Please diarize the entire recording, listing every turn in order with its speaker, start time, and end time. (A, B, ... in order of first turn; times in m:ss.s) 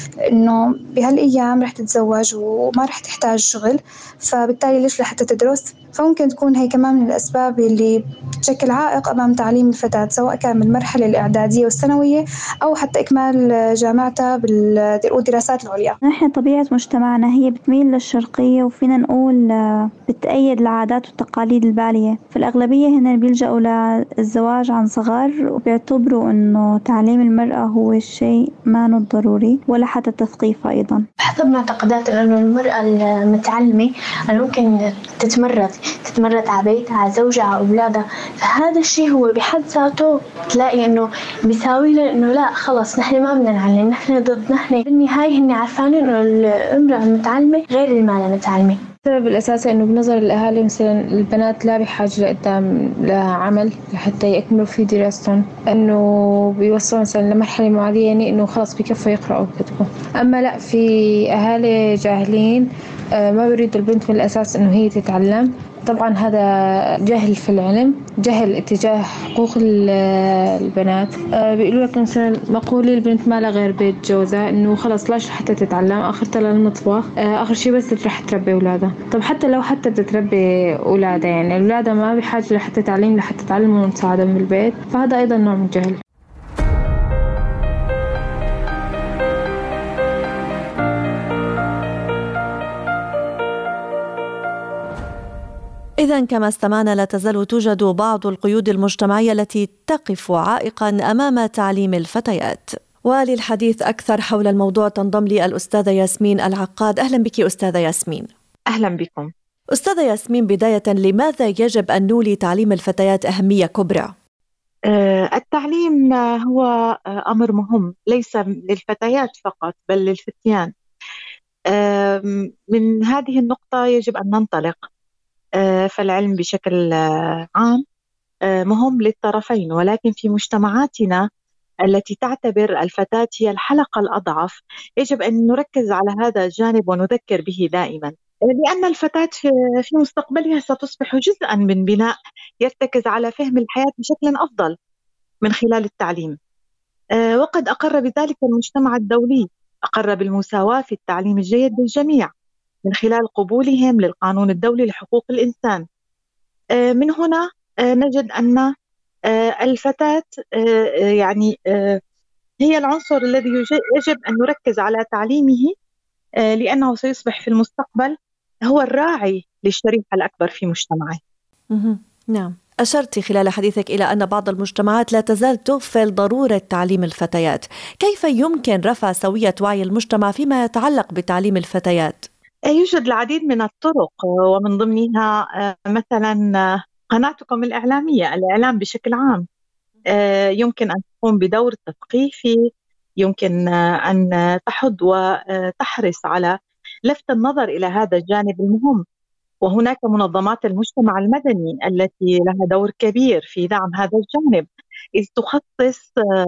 0:00.3-0:16.0 A
0:16.0-0:19.5 B
0:20.1-0:31.1 B
0:31.2-0:48.8 C
0:49.0-1:06.5 D
1:07.1-1:26.0 D
1:36.0-1:48.3 E
1:48.7-1:49.3 F
1:49.7-1:54.1 E
1:54.9-1:56.7 F
1:57.3-2:00.7 F
2:01.7-2:04.8 F
2:05.6-2:06.8 F
2:08.7-2:11.2 F
2:11.9-2:22.1 F
2:22.6-2:24.7 F
2:25.4-2:26.4 F
2:27.2-2:32.3 F
2:32.9-2:35.8 F
2:36.8-2:38.7 F
2:39.3-2:40.3 F
2:41.2-2:42.0 F
2:42.6-2:45.7 F
2:46.5-2:48.1 F
2:48.7-2:51.2 F
2:51.7-3:02.3 E
3:02.7-3:05.3 F
3:05.9-3:06.4 F
3:07.1-3:09.4 F
3:10.1-3:12.5 F
3:13.2-3:16.5 F
3:17.1-3:19.0 F
3:19.6-3:24.7 F
3:25.2-3:26.1 F